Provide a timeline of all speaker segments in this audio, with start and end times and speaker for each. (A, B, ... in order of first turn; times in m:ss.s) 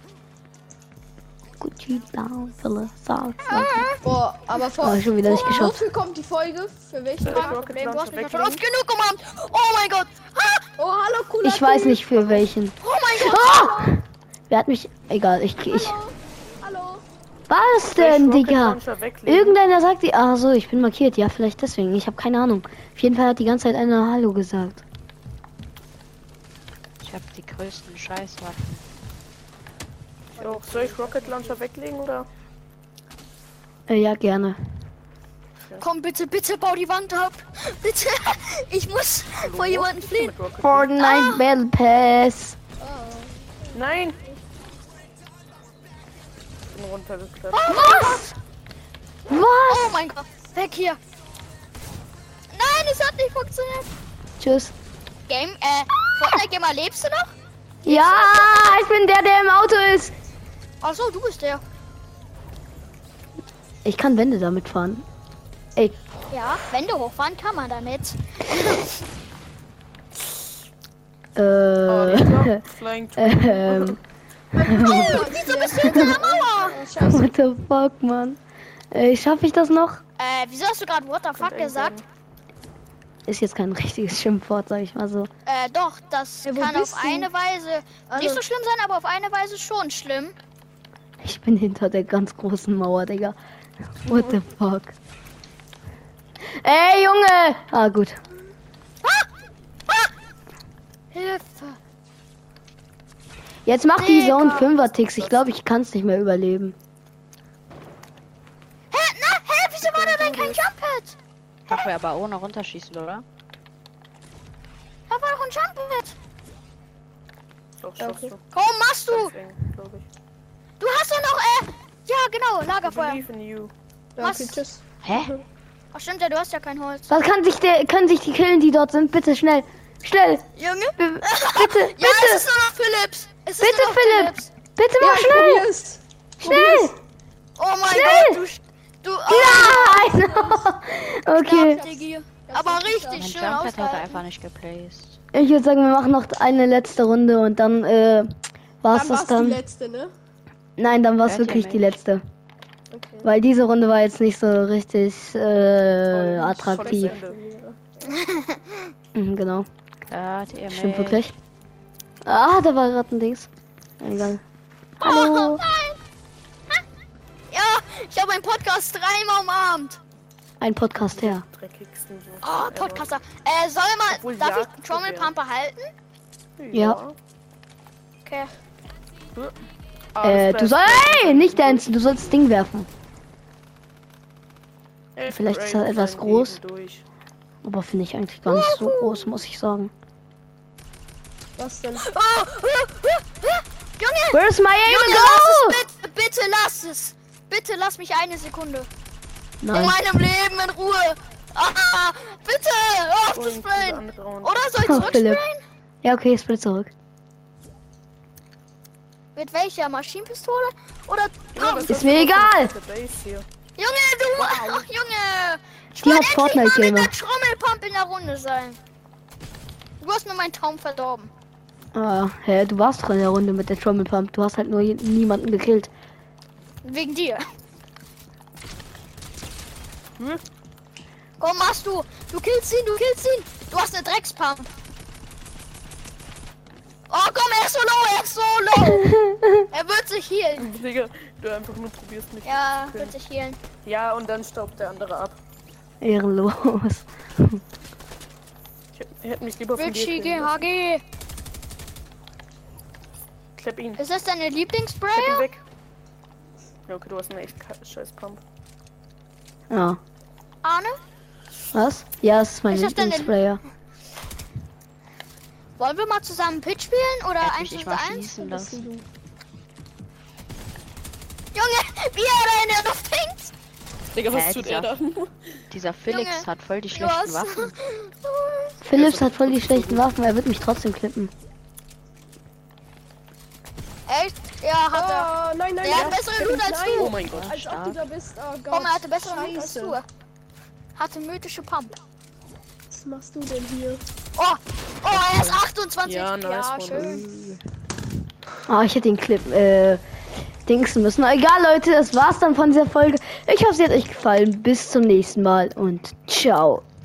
0:01.6-0:03.8 A
0:03.4-0:04.0 B
0:04.0-0:07.6 C
0:04.8-0:05.8 A
0:07.2-0:08.6 D
0:07.2-0:10.6 B
0:10.8-0:12.2 C
0:11.4-0:16.0 A
0:12.8-0:13.8 B
0:15.7-0:17.0 C
0:17.5-0:24.8 A
0:17.8-0:19.6 D
0:27.0-0:28.8 E
0:30.4-0:31.6 C
0:30.4-0:32.3 D
0:33.9-0:34.6 A
0:35.8-0:40.3 B
0:39.4-0:40.9 D
0:40.6-0:42.6 A
0:41.0-0:41.4 B
0:42.8-0:43.9 C
0:43.7-0:44.2 D
0:46.7-0:47.7 D
0:47.5-0:48.3 B
0:47.7-0:48.3 A
0:49.3-0:50.0 A
0:49.7-0:51.0 B
0:52.5-0:53.9 B
0:54.4-0:54.7 A
0:55.3-0:57.3 B
0:57.8-0:58.8 B
0:57.8-1:00.1 A
1:00.8-1:01.6 B
1:03.8-1:05.0 A
1:06.3-1:08.9 B
1:11.4-1:12.6 A
1:11.9-1:14.0 D
1:13.2-1:14.0 A
1:14.6-1:17.3 C
1:14.6-1:15.2 A
1:14.8-1:16.8 B
1:15.8-1:16.2 A
1:17.0-1:18.4 A
1:18.9-1:20.0 A
1:20.2-1:22.0 B
1:21.4-1:22.0 D
1:23.2-1:25.3 A
1:25.4-1:30.3 B
1:26.5-1:27.3 C
1:28.1-1:28.4 C
1:31.2-1:33.4 A
1:34.0-1:34.9 A
1:36.6-1:38.2 A
1:41.1-1:41.8 B
1:43.6-1:46.8 A
1:44.0-1:44.8 B
1:48.9-1:51.2 B
1:49.8-1:50.6 D
1:51.7-1:53.2 E
1:55.1-1:56.1 B
1:57.8-1:58.4 D
1:58.0-1:58.3 C
1:58.5-1:59.3 B
1:59.1-2:00.1 D
2:00.8-2:03.2 B
2:02.8-2:03.7 D
2:04.2-2:05.4 C
2:04.2-2:04.6 B
2:05.0-2:05.3 E
2:05.9-2:07.1 B
2:07.1-2:12.4 A
2:10.6-2:14.5 B
2:13.6-2:15.7 A
2:15.0-2:17.0 C
2:16.4-2:16.9 A
2:17.6-2:20.1 B
2:17.9-2:18.4 A
2:19.3-2:21.8 A
2:20.1-2:20.7 C
2:21.4-2:24.2 B
2:21.7-2:23.3 C
2:23.1-2:25.2 E
2:25.3-2:29.6 A
2:28.9-2:30.1 C
2:30.8-2:32.2 A
2:31.2-2:32.0 E
2:32.9-2:33.3 C
2:33.2-2:37.2 A
2:36.1-2:37.4 D
2:36.6-2:38.2 C
2:38.0-2:38.9 B
2:39.1-2:39.7 A
2:40.1-2:41.2 E
2:40.7-2:41.3 A
2:42.2-2:43.5 A
2:44.0-2:44.4 A
2:45.0-2:45.6 A
2:45.0-2:46.0 B
2:47.5-2:50.0 B
2:50.6-2:51.4 A
2:51.0-2:53.1 D
2:52.4-2:55.9 B
2:54.1-2:55.3 D
2:56.6-2:57.2 D
2:56.7-2:57.0 A
2:58.2-2:58.5 B
3:00.1-3:01.8 D
3:00.2-3:02.9 A
3:05.1-3:07.0 D
3:05.3-3:06.6 A
3:07.6-3:09.9 A
3:08.5-3:09.4 B
3:11.6-3:12.0 C
3:12.0-3:18.9 B
3:14.3-3:15.8 A
3:19.6-3:20.0 A
3:19.7-3:25.6 B
3:23.3-3:25.1 D
3:24.8-3:25.4 A
3:26.0-3:26.9 A
3:29.3-3:32.0 B
3:31.5-3:33.4 D
3:31.9-3:32.7 A
3:33.8-3:38.8 B
3:34.4-3:34.8 D
3:36.0-3:37.1 A
3:40.0-3:41.3 B
3:41.9-3:45.9 A
3:46.8-3:47.4 B
3:51.4-3:54.7 B
3:57.1-3:59.0 B
3:58.8-3:59.6 A
3:59.7-4:00.7 B
4:00.6-4:03.2 D
4:02.4-4:03.6 B
4:03.8-4:05.4 D
4:06.0-4:07.6 A
4:08.9-4:10.6 D
4:09.8-4:11.0 B
4:13.6-4:14.0 D
4:14.0-4:15.5 B
4:15.1-4:15.6 D
4:16.9-4:18.4 D
4:19.7-4:20.0 A
4:20.6-4:21.0 B
4:21.7-4:23.6 A
4:22.7-4:23.4 B
4:25.8-4:28.3 B
4:27.4-4:28.9 E
4:28.4-4:29.0 C
4:31.5-4:33.5 B
4:34.1-4:35.3 D
4:34.3-4:35.0 E
4:35.7-4:37.7 E
4:36.1-4:38.7 B
4:38.8-4:41.3 A
4:38.9-4:39.8 E
4:39.0-4:40.1 D
4:44.1-4:45.3 B
4:44.9-4:50.0 C
4:45.8-4:47.1 B
4:45.9-4:47.5 D
4:47.0-4:48.0 E
4:48.7-4:50.0 B
4:51.0-4:52.0 B
4:52.9-4:54.0 C
4:54.4-4:57.2 B
4:55.1-4:55.6 E
4:56.0-4:57.1 D
4:57.0-4:57.5 E
4:58.7-5:00.0 A
5:00.6-5:06.8 A